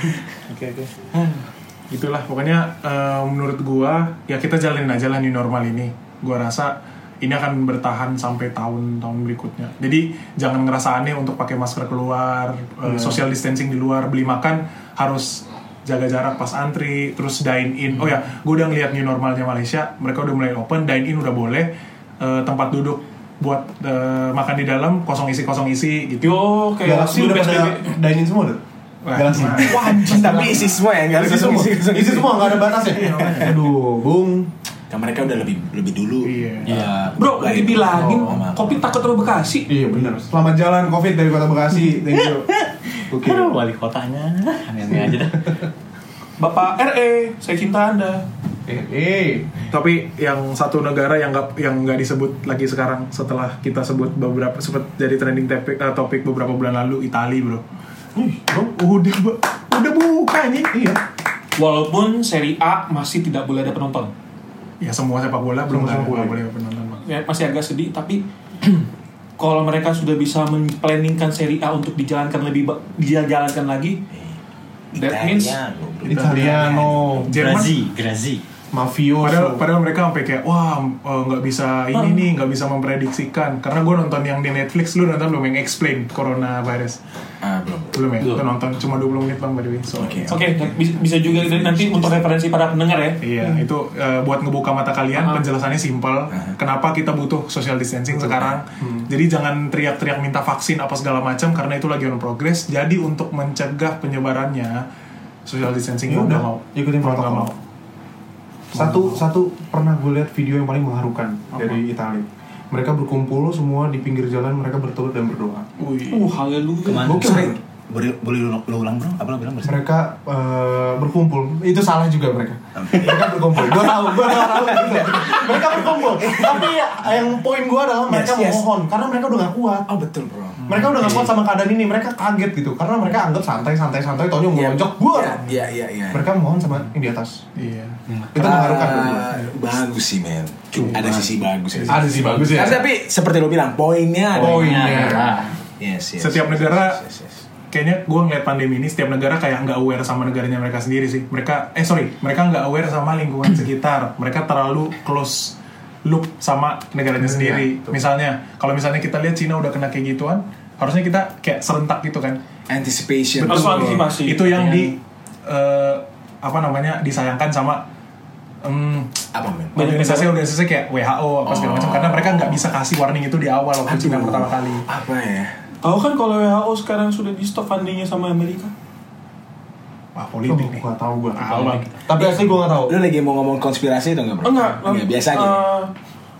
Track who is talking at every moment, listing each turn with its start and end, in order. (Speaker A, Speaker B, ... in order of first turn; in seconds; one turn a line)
Speaker A: 0.4-26.4
Speaker B: 12.8-13.2
Speaker C: 26.2-27.9
Speaker B: 26.8-28.6
Speaker A: 29.0-30.5
Speaker B: 29.1-34.5
Speaker D: 29.6-33.1
Speaker C: 29.6-30.5
Speaker A: 32.9-33.6
Speaker D: 34.9-39.0
Speaker A: 36.2-36.8
Speaker E: 36.7-37.1
Speaker C: 37.2-39.7
Speaker B: 37.9-38.4
Speaker B: 39.7-42.5
Speaker B: 43.1-43.6
Speaker E: 43.1-45.6
Speaker B: 45.0-45.2
Speaker C: 46.4-48.3
Speaker B: 48.7-49.5
Speaker A: 49.7-57.6
Speaker B: 58.1-58.8
Speaker A: 58.7-60.8
Speaker B: 60.7-61.0
Speaker C: 61.6-64.1
Speaker A: 64.8-67.0
Speaker B: 65.7-66.4
Speaker C: 67.0-68.9
Speaker C: 69.4-74.0
Speaker D: 74.1-74.4
Speaker C: 74.9-75.6
Speaker D: 74.9-77.2
Speaker B: 76.1-77.3
Speaker A: 76.1-76.5
Speaker E: 77.2-78.4
Speaker A: 77.3-77.8
Speaker B: 78.7-79.6
Speaker A: 79.2-87.0
Speaker C: 81.9-82.3
Speaker D: 87.4-88.1
Speaker A: 87.9-90.4
Speaker D: 90.0-92.3
Speaker C: 90.3-93.2
Speaker A: 93.2-104.8
Speaker C: 95.2-95.4
Speaker D: 96.3-96.6
Speaker B: 98.8-99.1
Speaker A: 105.5-107.6
Speaker B: 106.1-107.5
Speaker A: 108.7-109.3
Speaker B: 108.7-115.7
Speaker A: 115.8-116.4
Speaker C: 116.1-117.2
Speaker E: 116.9-117.5
Speaker D: 116.9-119.8
Speaker B: 117.0-117.6
Speaker B: 119.6-129.9
Speaker D: 122.8-126.9
Speaker D: 128.1-128.7
Speaker D: 129.9-131.2
Speaker A: 130.6-131.1
Speaker B: 130.7-135.4
Speaker D: 134.5-136.3
Speaker B: 136.1-137.4
Speaker A: 137.6-138.0
Speaker E: 138.1-138.7
Speaker B: 138.3-139.3
Speaker D: 138.3-145.2
Speaker A: 140.7-142.7
Speaker B: 140.8-141.2
Speaker B: 141.9-142.9
Speaker B: 144.3-145.4
Speaker E: 144.3-145.5
Speaker D: 145.8-147.4
Speaker A: 146.2-147.0
Speaker A: 147.7-162.4
Speaker B: 157.2-157.9
Speaker D: 162.7-164.1
Speaker A: 163.4-167.9
Speaker C: 163.4-164.4
Speaker E: 164.4-164.9
Speaker A: 168.6-174.9
Speaker D: 169.3-169.8
Speaker C: 169.8-170.3
Speaker D: 171.5-172.7
Speaker D: 173.8-175.6
Speaker C: 175.8-178.7
Speaker A: 180.2-181.9
Speaker B: 180.5-181.5
Speaker E: 181.4-182.0
Speaker B: 182.1-183.0
Speaker D: 182.2-185.6
Speaker C: 184.4-185.9